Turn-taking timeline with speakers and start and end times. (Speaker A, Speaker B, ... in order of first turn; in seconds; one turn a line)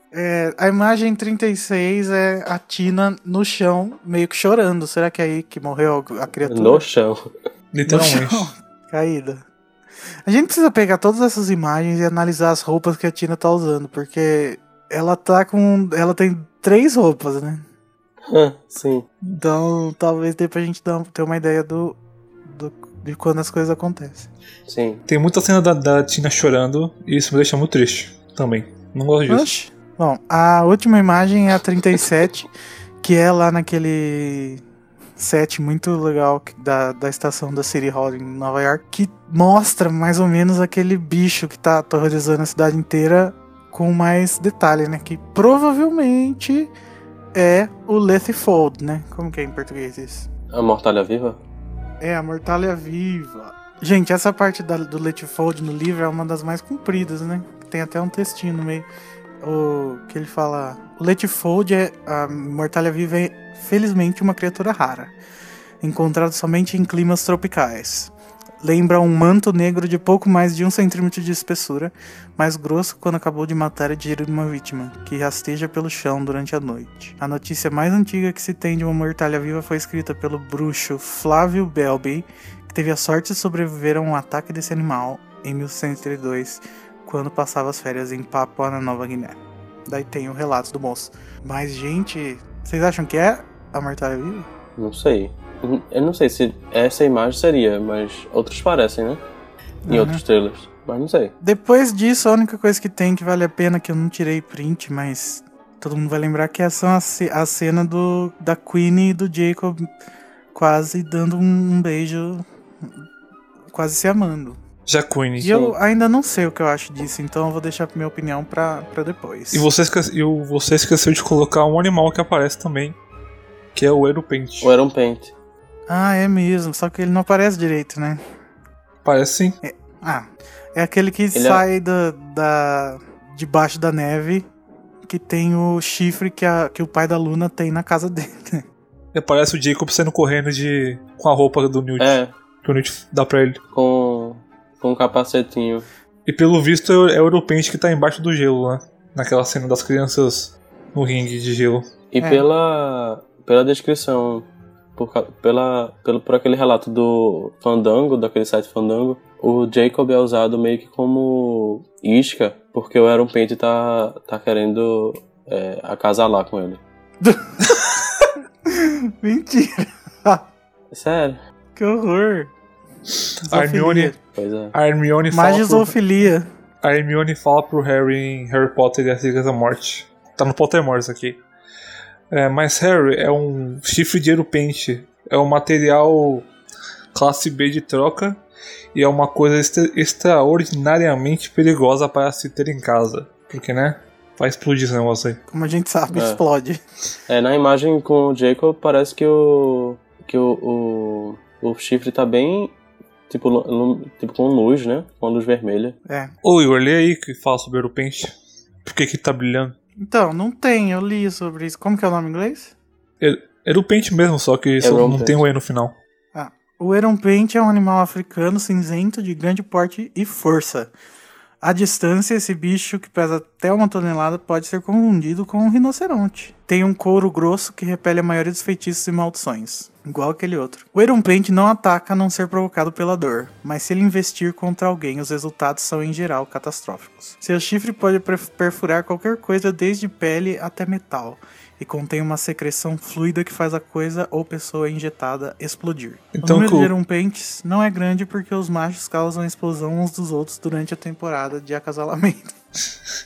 Speaker A: 0.1-6.8
Speaker B: 6.5-7.2
Speaker C: 7.7-8.5
Speaker A: 7.9-9.4
Speaker A: 10.3-17.6
Speaker B: 18.3-19.1
Speaker A: 19.4-24.3
Speaker B: 24.7-25.0
Speaker C: 25.1-29.5
Speaker A: 29.3-32.5
Speaker A: 33.0-34.6
Speaker A: 35.2-46.7
Speaker A: 47.3-50.3
Speaker B: 50.5-51.4
Speaker A: 52.0-58.9
Speaker A: 59.4-65.1
Speaker A: 65.8-94.5
Speaker B: 94.8-99.2
Speaker A: 99.9-100.2
Speaker B: 99.9-101.3
Speaker A: 101.4-109.9
Speaker A: 110.5-112.9
Speaker A: 113.7-114.6
Speaker C: 114.9-115.7
Speaker A: 115.4-119.7
Speaker C: 119.5-123.0
Speaker C: 123.8-124.7
Speaker B: 124.6-125.3
Speaker A: 125.9-128.2
Speaker C: 129.0-129.6
Speaker A: 129.6-130.2
Speaker A: 130.8-134.5
Speaker B: 131.3-131.6
Speaker A: 135.1-138.6
Speaker C: 139.1-143.6
Speaker B: 142.0-142.3
Speaker B: 143.7-145.9
Speaker C: 146.3-151.9
Speaker B: 152.1-166.8
Speaker A: 167.2-168.0
Speaker A: 168.7-170.4
Speaker B: 170.9-171.4
Speaker A: 171.8-172.5
Speaker A: 173.4-174.2
Speaker C: 173.5-174.1
Speaker B: 174.4-174.7
Speaker C: 174.7-176.0
Speaker A: 175.3-176.5
Speaker C: 176.8-181.4
Speaker C: 182.3-186.5
Speaker C: 187.1-188.4
Speaker C: 188.9-195.4
Speaker A: 195.5-196.8
Speaker B: 196.1-196.4
Speaker B: 197.3-202.7
Speaker B: 203.3-206.0
Speaker C: 206.4-208.3
Speaker C: 208.8-209.8
Speaker A: 210.0-212.7
Speaker C: 213.2-215.9
Speaker B: 214.8-215.4
Speaker A: 216.3-220.9
Speaker A: 221.6-252.5
Speaker C: 246.3-246.9